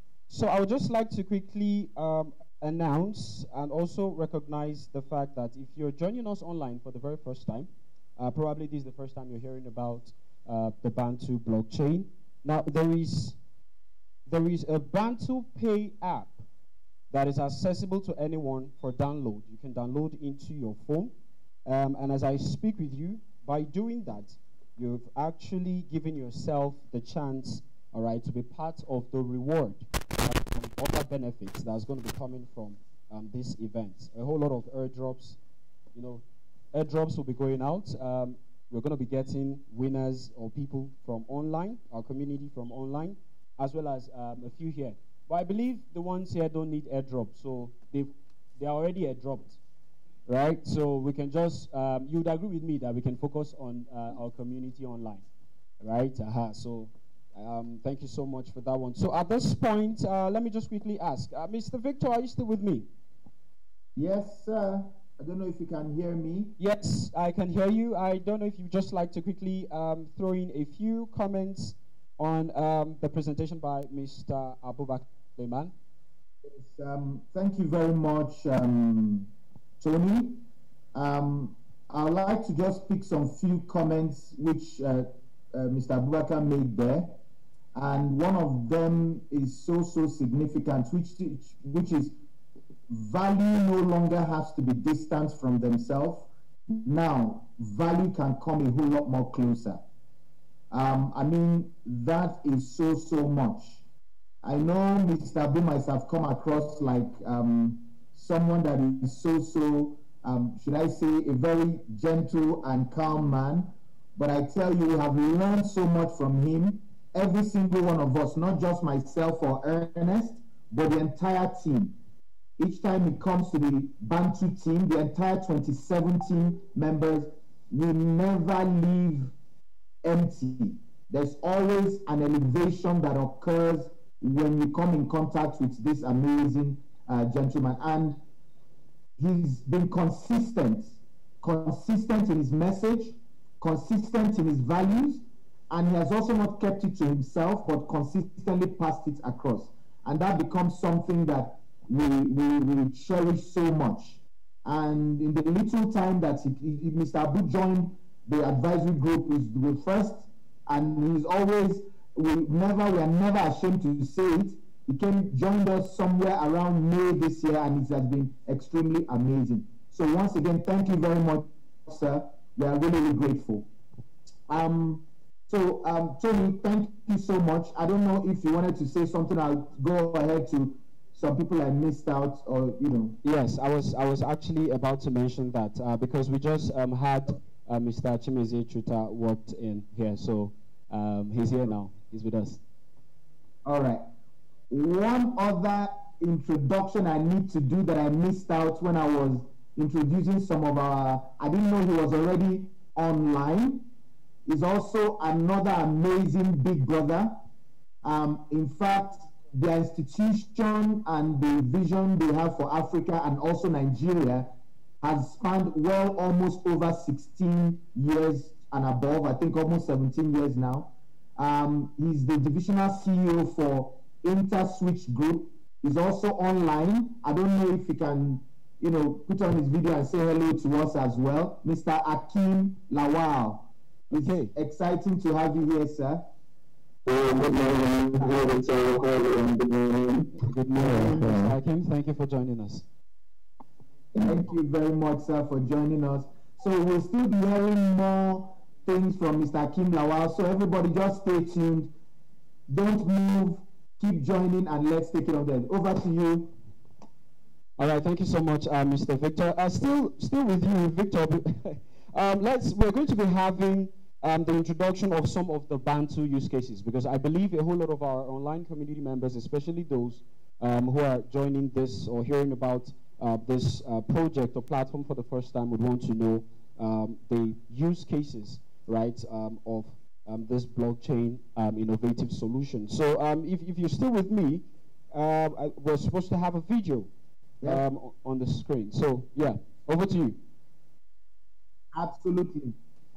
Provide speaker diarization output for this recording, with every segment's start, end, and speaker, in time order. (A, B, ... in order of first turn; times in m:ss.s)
0:00.3-0:13.4 A
0:14.3-0:16.4 A
0:17.1-0:21.1 A
0:21.6-0:35.4 A
0:35.9-0:49.6 A
0:50.3-0:55.2 A
0:55.8-1:02.9 A
1:04.0-1:06.5 B
1:06.6-1:15.7 A
1:16.4-1:19.3 B
1:19.8-1:27.2 B
1:27.7-1:32.1 B
1:32.9-1:39.8 B
1:40.7-1:43.8 B
1:44.4-2:02.0 B
2:02.6-2:09.3 B
2:10.0-2:18.2 B
2:19.2-2:53.7 B
2:54.5-3:03.2 B
3:03.2-3:12.6 A
3:13.6-3:14.1 B
3:14.7-3:23.9 B
3:24.4-3:27.4 B
3:28.0-3:56.3 B
3:54.2-3:54.5 A
3:57.0-4:01.6 C
4:00.4-4:02.8 A
4:04.2-4:11.9 B
4:12.7-4:16.6 B
4:17.8-4:47.1 A
4:47.6-4:50.4 A
4:51.9-4:52.8 B